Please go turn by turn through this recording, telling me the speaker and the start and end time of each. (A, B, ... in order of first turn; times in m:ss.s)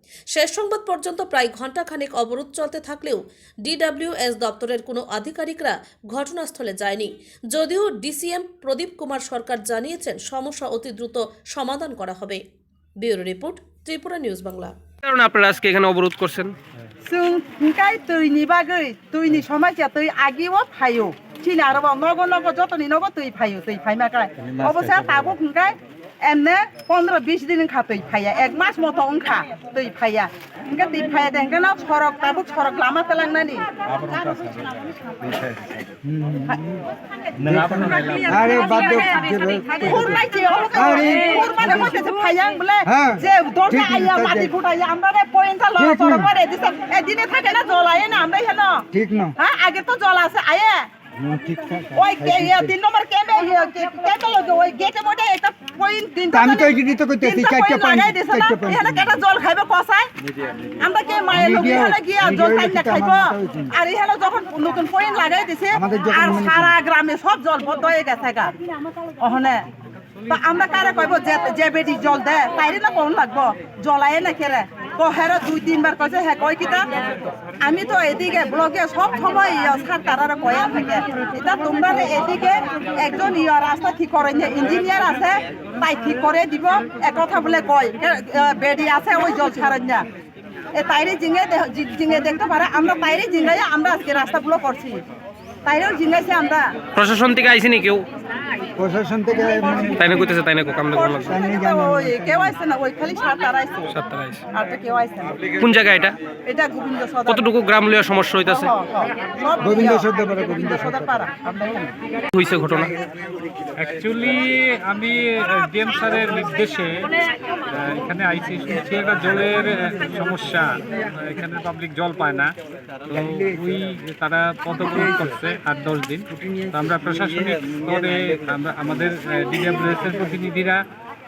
0:00.3-0:12.4 A
0:13.0-0:14.7 A
0:15.0-0:16.5 B
0:17.0-0:34.9 C
0:35.8-0:36.9 D
0:37.4-0:40.2 D
0:37.7-0:39.1 C
0:39.7-0:48.9 C
0:40.7-0:41.9 D
0:42.9-0:44.5 D
0:45.8-0:46.3 D
0:48.9-0:49.3 D
0:49.4-0:50.9 C
0:51.2-0:52.7 D
0:52.0-1:00.1 C
0:56.3-0:59.2 D
1:00.8-1:09.6 C
1:01.3-1:03.7 D
1:05.7-1:06.7 D
1:10.3-1:30.0 C
1:30.7-1:35.0 C
1:35.6-1:36.7 C
1:37.0-1:38.1 B
1:38.8-1:40.0 D
1:39.4-1:40.1 C
1:40.1-1:41.2 B
1:40.9-1:43.9 C
1:41.3-1:42.5 D
1:43.9-1:44.4 B
1:44.5-1:45.6 C
1:45.6-1:46.1 B
1:46.5-1:47.5 C
1:47.3-1:48.6 B
1:48.4-1:51.3 C
1:49.6-1:51.8 D
1:52.3-1:52.9 B
1:53.8-1:57.1 E
1:57.7-2:02.5 E
2:03.1-2:10.8 E